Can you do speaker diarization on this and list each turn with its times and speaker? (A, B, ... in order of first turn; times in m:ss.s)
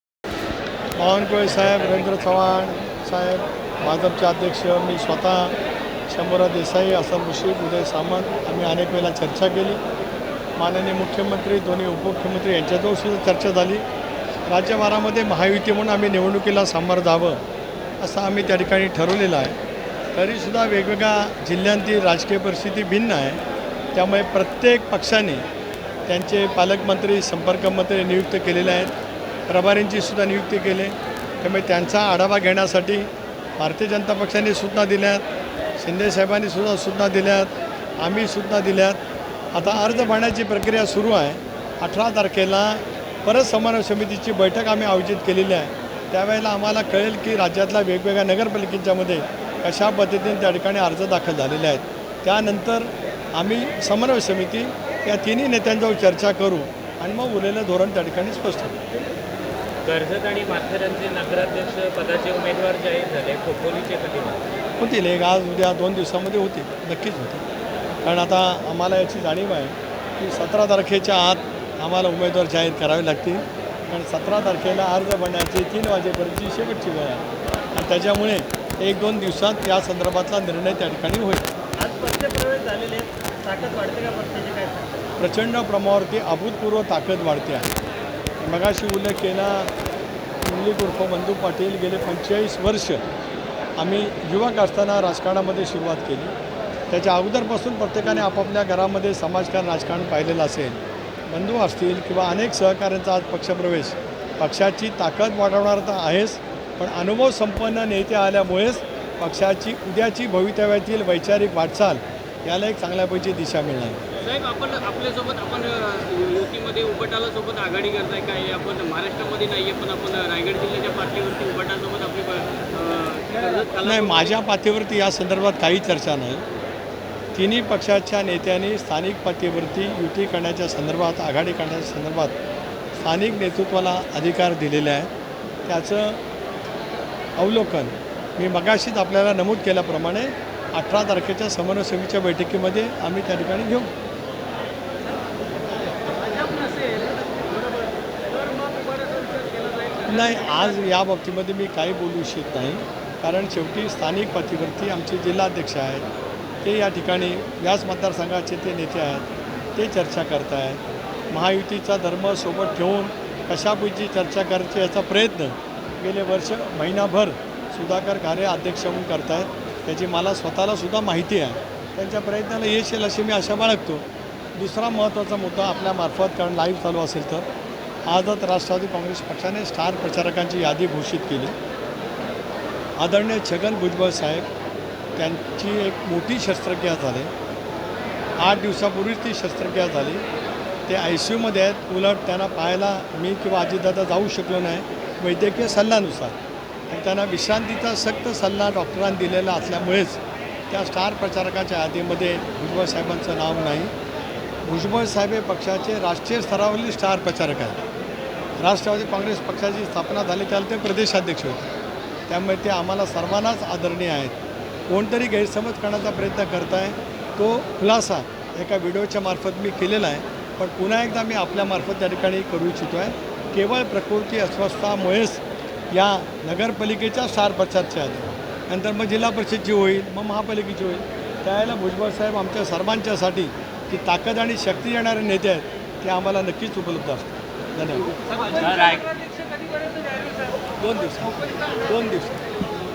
0:01.0-0:05.6 A
0:06.1-0:09.8 A
0:10.6-0:13.8 A
0:14.5-0:17.4 A
0:18.0-0:19.6 A
0:20.1-0:23.4 A
0:23.9-0:25.4 A
0:26.1-0:28.9 A
0:29.5-0:35.2 A
0:35.8-0:39.0 A
0:39.5-0:58.8 A
0:59.8-1:04.4 B
1:04.8-1:07.4 A
1:08.0-1:21.5 A
1:21.8-1:24.9 B
1:25.2-1:27.7 A
1:28.4-1:29.7 A
1:30.4-1:33.0 A
1:33.8-1:36.3 A
1:36.9-1:54.0 A
1:54.2-2:04.3 C
2:03.8-2:06.4 A
2:07.4-2:12.4 A
2:13.0-2:15.1 A
2:15.6-2:16.2 A
2:17.4-2:23.9 A
2:26.4-2:27.1 C
2:28.7-2:29.3 C
2:30.0-2:36.1 A
2:36.6-2:57.5 A
2:58.1-3:01.5 A
3:03.0-3:04.5 A
3:05.2-3:07.3 A
3:08.4-3:10.2 A
3:10.9-3:16.4 A
3:16.9-3:23.9 A
3:24.6-3:27.8 A
3:28.6-3:31.7 A
3:32.3-3:34.4 A
3:34.9-3:58.2 A
3:58.5-3:59.3 B
4:00.8-4:02.4 A